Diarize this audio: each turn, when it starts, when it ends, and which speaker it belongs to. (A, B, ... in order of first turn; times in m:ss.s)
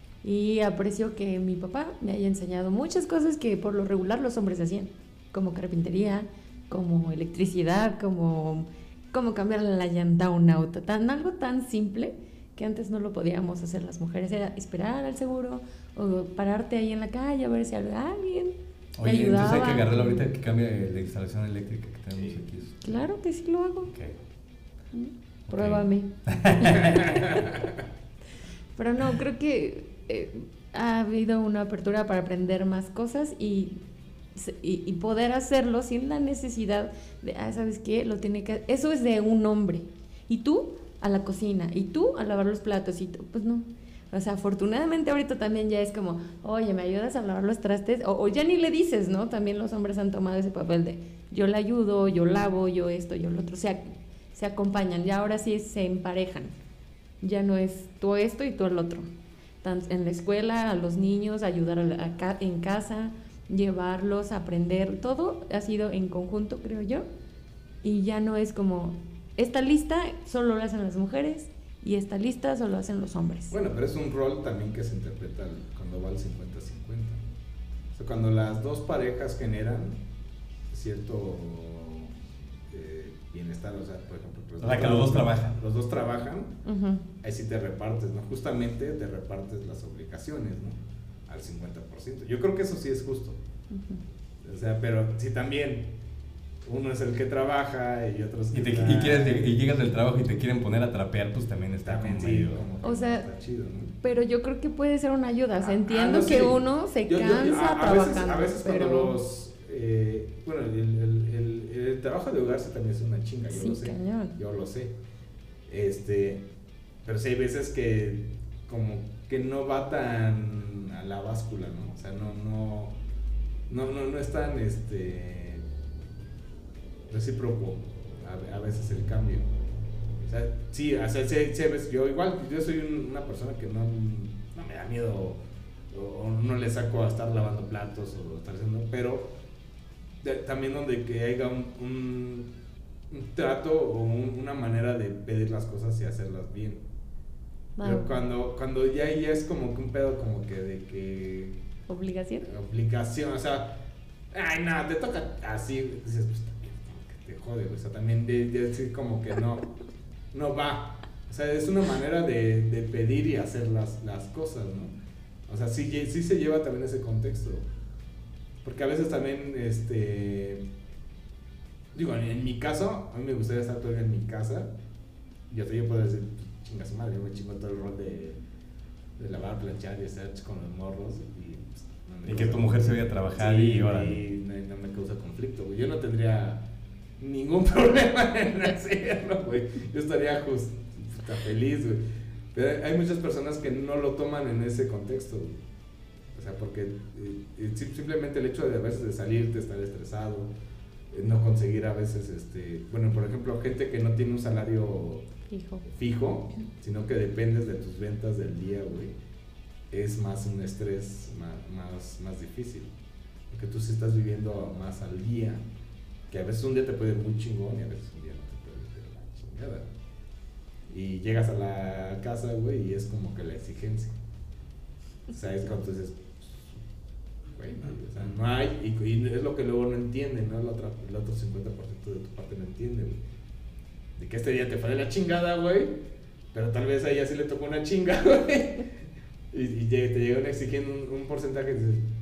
0:00.2-0:20.2 A
0:19.0-0:22.9 B
0:22.8-0:23.9 A
0:23.9-0:24.2 B
0:24.9-0:27.5 A
0:25.5-0:27.2 B
0:28.8-0:33.8 A
0:34.4-0:56.5 A
0:57.2-0:59.1 A
0:59.6-1:07.1 A
1:07.8-1:13.5 A
1:13.5-1:17.2 C
1:17.9-1:20.0 C
1:20.7-1:22.2 C
1:22.7-1:26.6 C
1:24.6-1:25.6 B
1:26.6-1:27.0 A
1:27.2-1:33.4 C
1:33.7-1:34.0 A
1:34.4-1:36.0 C
1:36.6-1:39.5 C
1:38.5-1:42.6 B
1:41.8-1:44.0 C
1:42.8-1:43.2 A
1:44.0-1:49.2 A
1:45.6-1:55.0 C
1:53.5-1:54.4 A
1:55.7-1:56.5 C
1:57.0-2:03.0 C
2:03.7-2:05.7 C
2:07.1-2:09.5 C
2:10.3-2:19.4 C
2:20.2-2:22.5 C
2:23.1-2:26.8 C
2:27.8-2:28.1 A
2:27.8-2:31.6 C
2:31.9-2:32.5 A
2:32.4-2:33.8 C
2:34.3-2:39.7 C
2:40.3-2:44.9 C
2:45.5-2:47.7 C
2:48.6-2:50.6 C
2:52.0-2:54.7 C
2:55.5-2:58.4 C
2:59.2-3:06.7 C
3:02.2-3:04.2 B
3:07.2-3:12.0 C
3:12.5-3:15.6 C
3:16.4-3:20.5 C
3:21.1-3:25.3 C
3:25.5-3:25.8 A
3:25.9-3:29.2 C
3:29.9-3:32.9 C
3:33.5-3:35.6 C
3:36.3-3:39.9 C
3:40.9-3:44.1 C
3:45.3-3:46.8 C
3:47.6-3:53.2 C
3:54.2-3:56.0 C
3:56.5-3:58.9 C
3:59.5-4:02.1 C